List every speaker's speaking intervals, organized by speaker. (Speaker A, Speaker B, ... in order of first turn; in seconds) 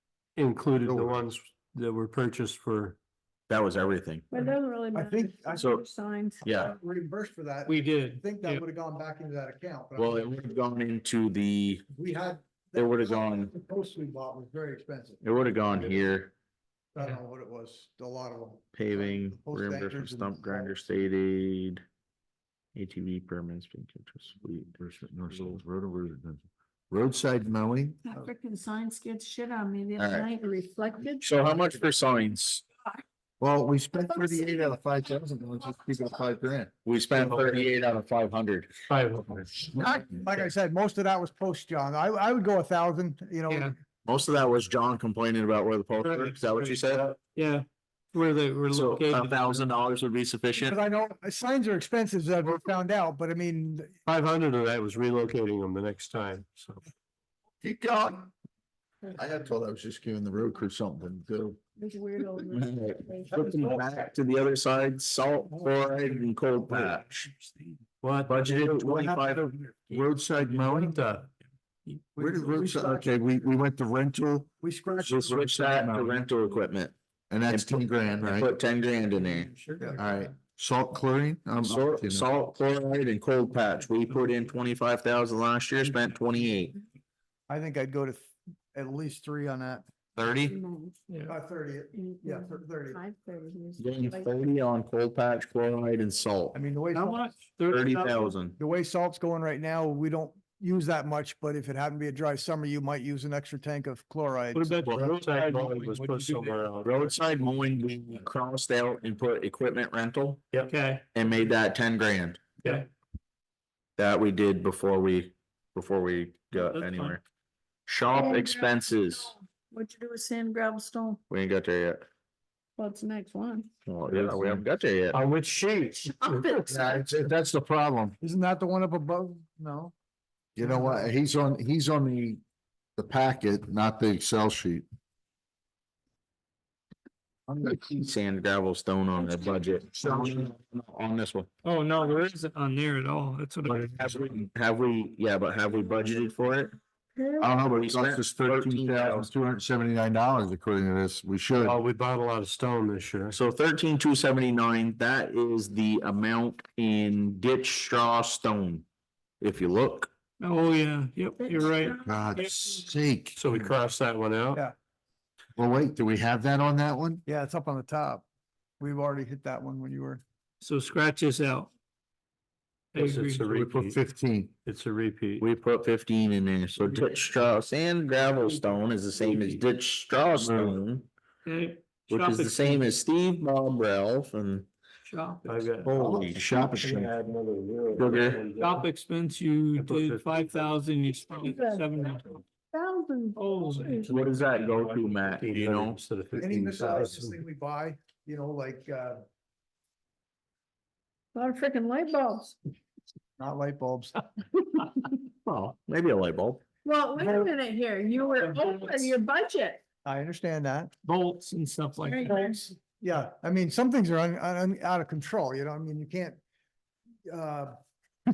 Speaker A: 0.4-3.0, 37.1-37.7, 38.9-39.7, 54.1-56.8, 68.0-68.5, 70.6-71.3, 104.8-107.2, 125.1-126.7, 151.6-153.4, 163.4-164.7, 172.9-174.0, 174.6-175.4, 179.2-179.6, 185.4-188.9, 189.8-190.7, 193.9-197.4
Speaker B: 0.8-1.2, 24.7-28.0, 33.4-36.7, 59.1-61.6, 68.5-71.0, 72.2-74.5, 75.1-76.2, 77.3-78.5, 80.0-82.3, 124.1-124.6, 126.7-128.2, 130.6-132.4, 133.0-134.8, 140.0-140.5, 147.4-151.8, 162.0-163.7, 165.6-167.2, 173.6-174.5, 186.2-186.9
Speaker C: 3.5-4.3, 5.6-5.8, 6.4-6.7, 10.0-11.9, 12.8-13.5, 15.2-16.3, 18.8-21.8, 22.8-24.8, 25.3-25.6, 30.0-30.3, 31.2-32.6, 36.9-38.7, 44.1-47.1, 48.7-50.8, 57.6-58.3, 62.5-67.3, 68.3-69.6, 75.0-76.9, 77.5-79.5, 81.6-86.8, 90.2-90.6, 93.8-96.6, 97.7-98.6, 104.9-105.1, 106.8-110.4, 111.1-112.4, 114.0-117.2, 117.9-119.3, 121.3-122.0, 123.9-125.2, 137.7-141.5, 143.7-146.7, 147.7-149.3, 153.3-158.8, 159.4-160.1, 175.4-181.1, 182.1-184.7, 185.8-187.1, 188.0-188.4, 194.1-196.0, 205.4-206.6
Speaker D: 4.3-6.5, 28.1-31.4, 34.1-34.7, 61.8-63.5, 90.4-91.0, 91.9-94.3, 118.1-121.2, 122.8-123.7, 126.0-127.2, 147.2-147.6, 161.4-162.3, 185.1-185.5, 191.4-194.1, 201.3-202.6, 206.8-209.8, 212.0-212.6
Speaker E: 4.9-5.8, 6.4-10.4, 11.9-15.2, 16.9-20.7, 39.7-43.7, 50.6-53.9, 63.4-63.9, 72.2-73.5, 74.6-75.4, 87.5-89.8, 91.3-93.0, 96.5-97.4, 98.6-104.8, 128.2-129.9, 130.6-131.1, 137.5-137.9, 167.3-168.2, 168.8-170.2, 196.3-199.2, 203.4-204.2, 210.1-210.9, 213.0-216.4, 217.3-217.8
Speaker F: 7.7-8.7, 43.5-43.8, 46.0-49.7, 66.8-67.7, 79.2-80.3, 91.1-91.4, 96.9-98.4, 104.5-106.6, 110.7-111.0, 116.5-117.2, 141.7-144.4, 160.4-162.8, 170.6-171.7, 172.9-173.7, 181.5-182.9, 188.6-192.4, 193.4-194.7, 208.4-209.1, 211.0-212.8